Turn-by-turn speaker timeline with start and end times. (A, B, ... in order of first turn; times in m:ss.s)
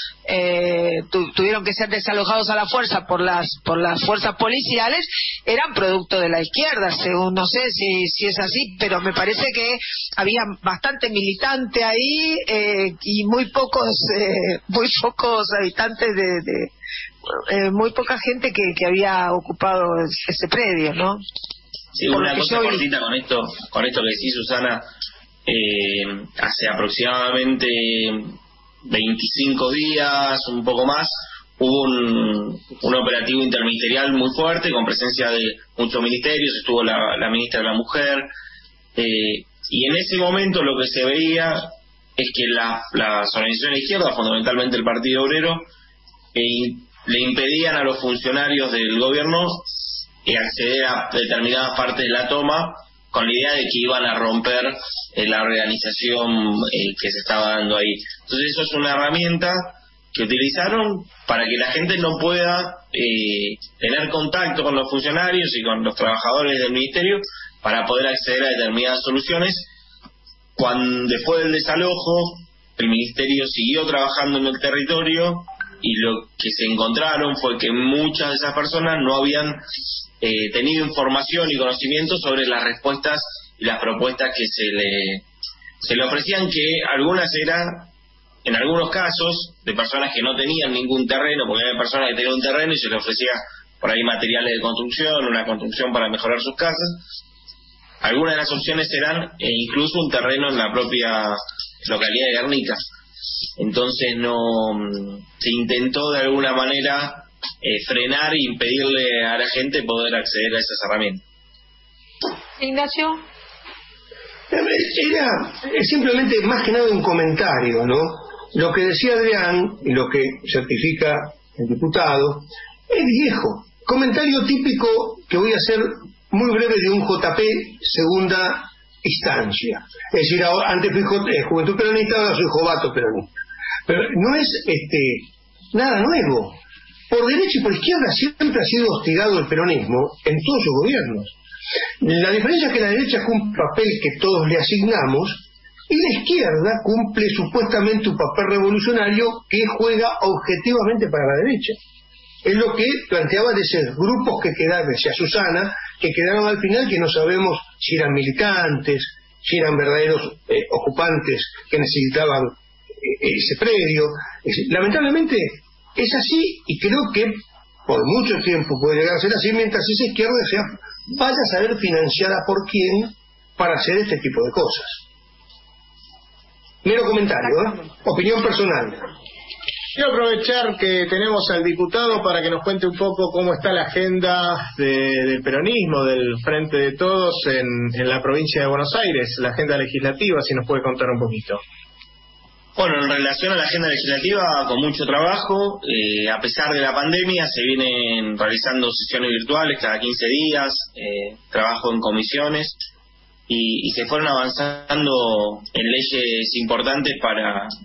0:00.3-0:16.7 A
0:17.3-0:21.2 A
0:21.9-0:24.8 B
0:22.1-0:22.8 A
0:25.5-0:38.3 B
0:39.0-0:45.7 B
0:46.3-0:49.7 B
0:50.2-1:09.7 B
1:10.6-1:19.6 B
1:20.2-1:25.2 B
1:25.8-1:27.9 B
1:28.4-1:37.0 B
1:38.0-1:42.8 B
1:43.6-1:51.2 B
1:52.6-1:53.2 A
1:54.5-2:13.3 C
2:13.9-2:15.2 C
2:15.7-2:16.5 C
2:17.1-2:21.3 C
2:22.0-2:25.3 C
2:25.9-2:31.7 C
2:32.5-2:42.5 C
2:43.2-2:47.3 C
2:47.9-2:54.9 C
2:56.8-2:59.0 C
3:00.0-3:11.6 D
3:12.8-3:22.8 B
3:23.5-3:27.7 B